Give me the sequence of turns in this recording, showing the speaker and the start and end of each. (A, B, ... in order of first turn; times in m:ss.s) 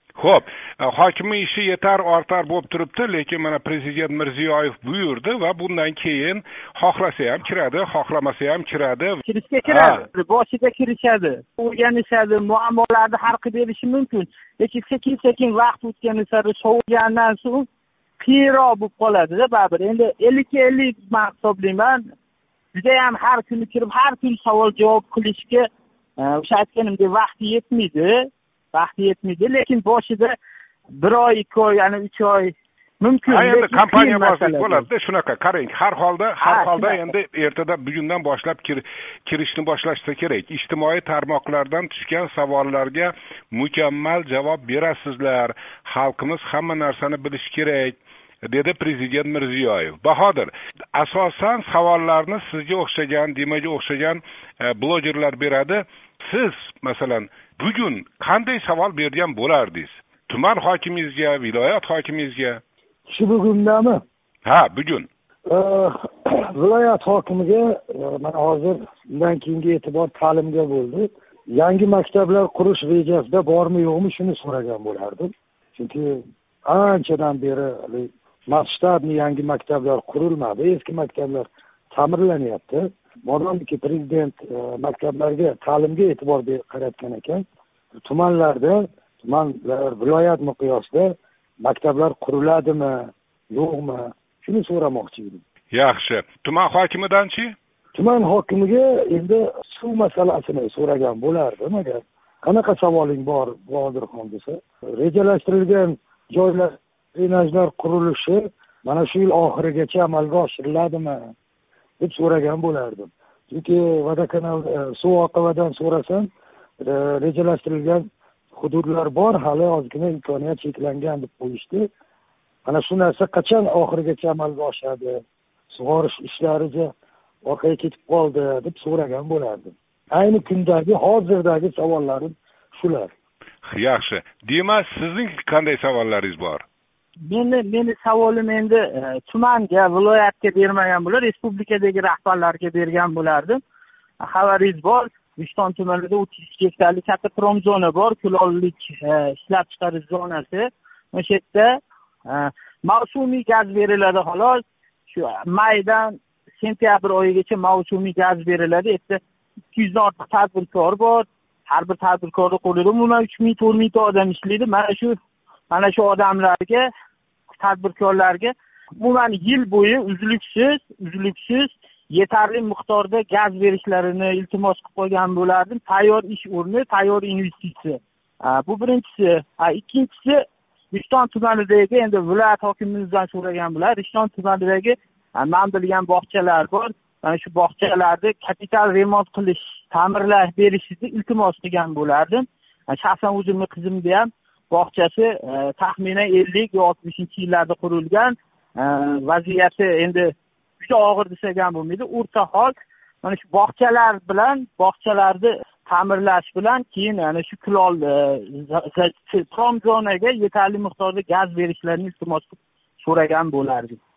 0:00.2-0:10.1 A
0:09.2-0:17.7 B
0:18.2-0:22.0 B
0:22.7-0:25.7 B
0:26.2-0:30.3 B
0:30.9-0:34.8 B
0:33.3-1:02.6 A
0:36.4-0:37.0 B
1:03.1-1:04.0 C
1:04.4-1:05.1 A
1:05.5-1:27.4 C
1:28.0-1:35.4 C
1:35.7-1:37.5 A
1:37.9-1:51.3 C
1:52.0-2:01.9 C
2:02.6-2:06.9 C
2:07.4-2:13.1 C
2:13.6-2:16.6 A
2:17.2-2:23.6 B
2:24.2-2:39.2 B
2:39.7-2:45.2 B
2:45.7-2:46.9 B
2:47.5-3:34.0 B